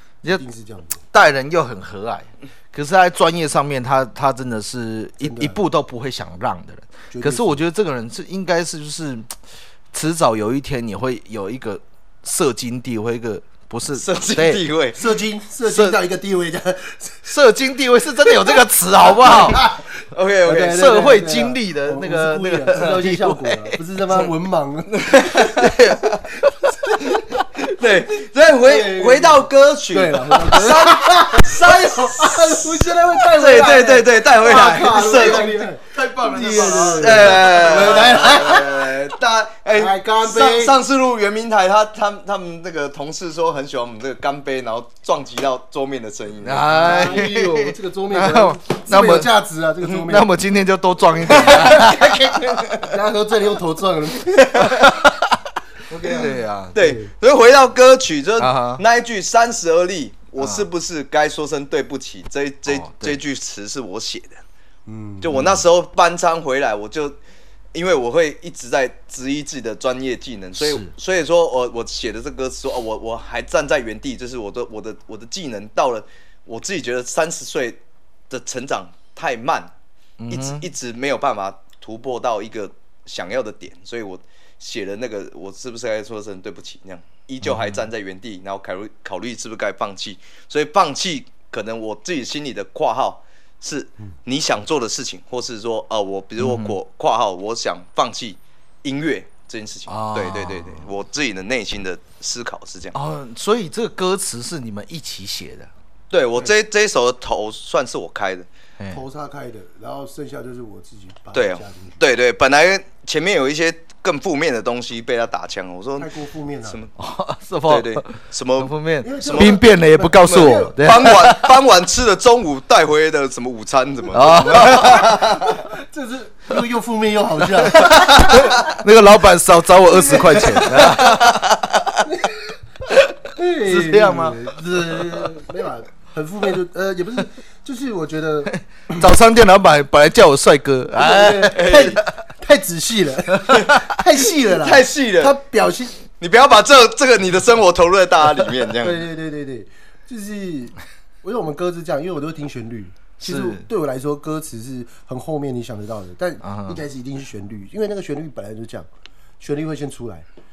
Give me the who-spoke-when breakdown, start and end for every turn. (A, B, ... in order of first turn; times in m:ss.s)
0:00.2-0:01.0 A
0:01.1-0:09.3 B
0:05.2-0:05.6 A
0:07.1-0:07.6 A
0:09.9-0:14.6 B
0:14.0-0:15.0 C
0:15.0-0:17.3 A
0:15.7-0:16.0 B
0:17.3-0:19.6 B
0:19.2-0:19.8 A
0:20.1-0:20.9 C
0:20.4-0:25.9 A
0:20.5-0:23.8 B
0:24.9-0:26.2 C
0:25.5-0:26.7 B
0:26.8-0:27.2 A
0:27.6-0:47.1 C
0:28.6-0:38.9 A
0:35.9-0:38.2 B
0:39.7-0:40.8 A
0:46.4-0:49.3 B
0:46.7-0:50.3 A
0:49.9-0:52.4 B
0:51.2-0:52.9 C
0:51.6-0:52.0 A
0:52.7-0:54.7 A
0:54.3-0:54.9 C
0:54.6-0:55.1 B
0:55.9-0:57.1 A
0:56.1-0:56.8 B
0:56.2-1:04.4 C
0:58.4-0:58.8 B
1:00.4-1:00.7 B
1:02.7-1:03.2 B
1:04.9-1:05.4 A
1:05.2-1:07.2 C
1:05.3-1:05.6 B
1:07.7-1:17.8 C
1:10.6-1:10.9 B
1:18.3-1:19.7 C
1:20.2-1:20.7 B
1:20.3-1:43.0 C
1:27.4-1:27.8 B
1:36.4-1:36.8 B
1:39.9-1:40.9 B
1:42.9-1:45.7 B
1:46.1-1:48.5 C
1:48.9-1:52.0 A
1:51.3-1:56.1 C
1:56.0-1:56.8 A
1:56.6-1:56.9 C
1:57.0-2:01.6 B
1:57.7-1:59.7 C
1:59.0-2:01.1 A
2:00.2-2:05.7 C
2:04.1-2:05.2 B
2:04.6-2:08.7 A
2:07.7-2:11.6 B
2:09.9-2:10.9 A
2:10.8-2:11.4 C
2:12.0-2:12.5 A
2:13.3-2:19.0 A
2:13.6-2:15.3 B
2:18.9-2:22.0 B
2:21.0-2:26.0 A
2:21.5-2:22.0 C
2:23.4-2:23.8 B
2:23.5-2:23.8 C
2:24.4-2:25.4 C
2:26.2-2:29.1 C
2:28.8-2:38.9 A
2:33.2-2:33.7 B
2:36.4-2:36.8 B
2:39.4-2:40.2 A